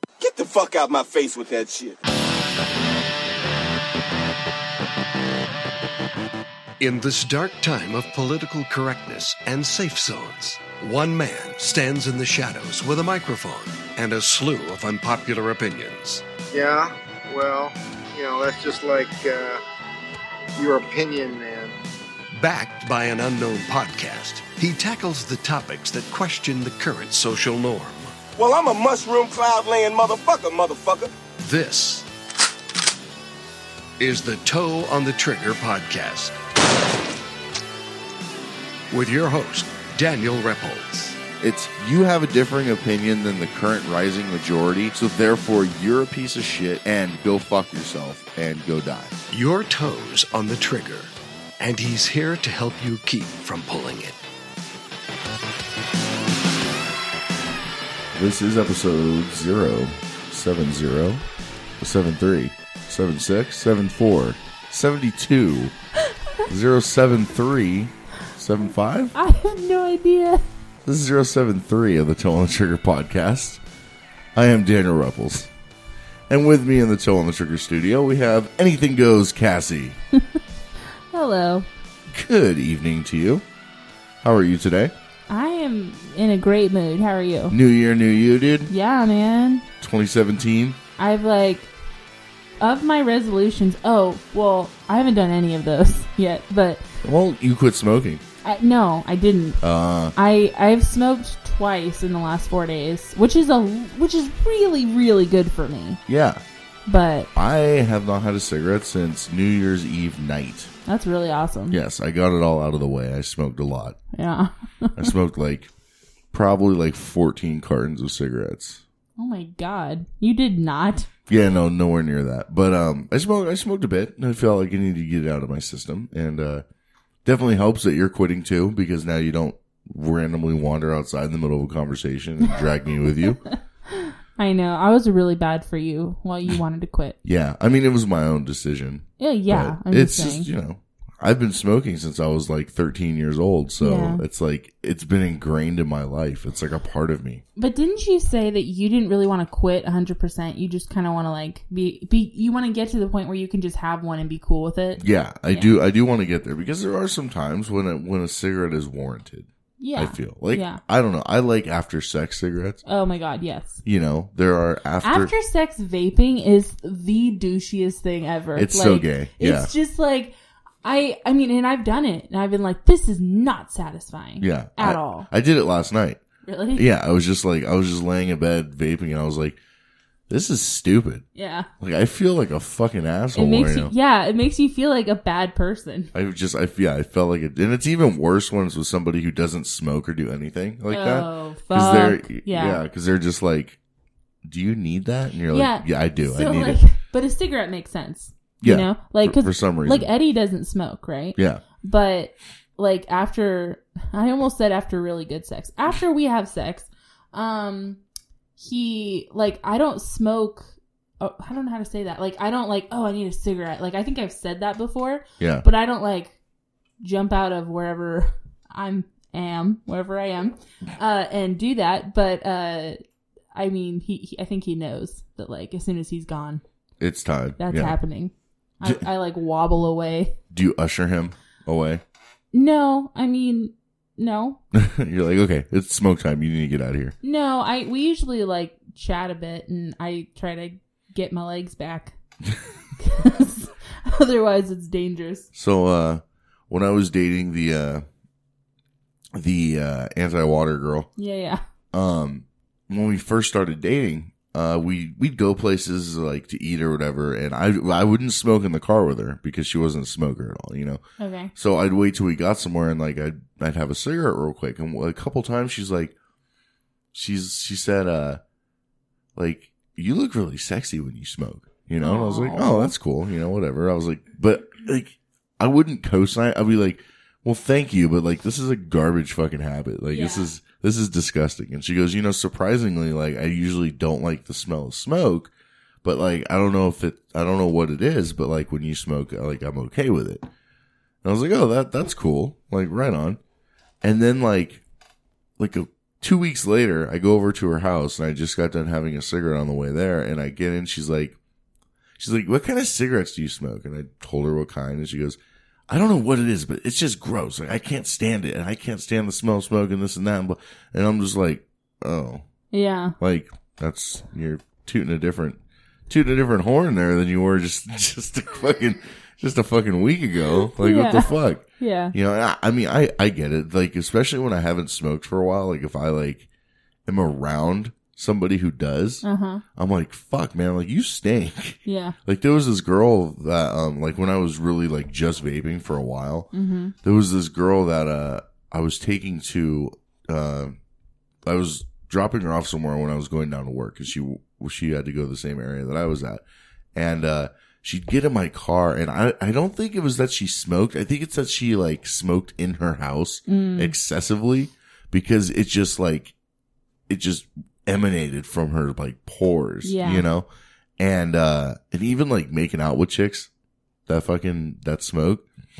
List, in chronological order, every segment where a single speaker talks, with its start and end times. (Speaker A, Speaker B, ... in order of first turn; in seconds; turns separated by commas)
Speaker A: 0.2-2.0, Speaker B: 6.8-16.2, Speaker C: 16.5-19.6, Speaker C: 20.6-21.8, Speaker B: 22.3-28.1, Speaker A: 28.4-31.1, Speaker B: 31.4-32.0, Speaker B: 34.0-36.4, Speaker B: 38.9-41.2, Speaker D: 41.4-49.1, Speaker B: 49.3-54.2, Speaker D: 58.1-61.2, Speaker D: 61.8-65.8, Speaker D: 66.5-69.1, Speaker E: 69.1-70.5, Speaker D: 70.8-73.6, Speaker D: 74.3-75.5, Speaker D: 76.3-80.0, Speaker E: 81.1-81.7, Speaker D: 82.1-83.5, Speaker D: 84.2-84.9, Speaker E: 85.3-87.6, Speaker D: 87.5-88.7, Speaker E: 88.7-89.7, Speaker D: 89.8-90.8, Speaker E: 91.0-91.7, Speaker E: 92.6-96.8, Speaker D: 97.0-98.2, Speaker E: 98.4-99.6, Speaker D: 99.6-100.1, Speaker E: 100.1-106.0, Speaker D: 106.1-106.4, Speaker E: 106.9-107.3, Speaker D: 107.3-110.7, Speaker E: 110.9-111.8, Speaker D: 111.7-114.0, Speaker E: 114.1-115.1, Speaker D: 115.0-115.7, Speaker D: 116.3-118.8, Speaker E: 119.2-121.1, Speaker D: 121.3-126.6, Speaker D: 127.2-133.4, Speaker E: 133.9-137.2, Speaker D: 137.2-147.4, Speaker E: 139.2-140.5, Speaker E: 143.8-144.2, Speaker E: 147.6-155.8, Speaker D: 155.0-162.8, Speaker E: 159.8-160.8, Speaker E: 162.8-163.8, Speaker D: 163.8-165.3, Speaker E: 165.0-170.3, Speaker D: 168.5-169.7, Speaker E: 170.8-175.3, Speaker D: 174.4-176.2, Speaker E: 176.4-176.9, Speaker D: 176.8-179.6, Speaker D: 180.3-181.2, Speaker E: 181.3-181.7, Speaker D: 181.8-183.9, Speaker E: 183.3-186.1, Speaker D: 186.1-193.8, Speaker E: 190.9-192.8, Speaker D: 194.4-196.8, Speaker E: 195.5-208.0, Speaker D: 198.6-200.1, Speaker D: 201.3-201.6, Speaker E: 208.6-216.4, Speaker D: 215.4-215.6, Speaker E: 217.0-223.0, Speaker E: 223.5-226.6, Speaker D: 227.0-228.0, Speaker E: 227.6-230.4, Speaker D: 230.5-232.0, Speaker E: 232.5-234.6, Speaker D: 234.7-237.2, Speaker E: 237.2-242.2, Speaker E: 243.0-245.5, Speaker D: 245.5-248.1, Speaker D: 249.3-251.1, Speaker E: 251.2-251.6, Speaker D: 251.9-261.0, Speaker E: 261.2-261.5, Speaker D: 261.6-266.1, Speaker D: 267.1-268.4, Speaker D: 269.4-285.5, Speaker E: 272.0-272.9, Speaker E: 280.1-280.5, Speaker D: 286.0-290.4, Speaker D: 291.2-293.4, Speaker D: 294.0-294.8, Speaker D: 295.6-301.4, Speaker D: 302.2-305.4, Speaker D: 305.9-312.4, Speaker E: 312.7-313.2, Speaker D: 313.2-326.5, Speaker E: 320.8-322.1, Speaker D: 327.1-329.2, Speaker E: 329.2-329.6, Speaker D: 329.8-336.5, Speaker E: 331.9-332.2, Speaker E: 336.5-336.9, Speaker D: 337.0-340.8, Speaker D: 341.4-346.4, Speaker D: 346.9-356.3, Speaker E: 353.5-353.9, Speaker D: 357.1-360.5, Speaker E: 359.8-360.3, Speaker D: 361.0-363.5, Speaker D: 364.1-365.4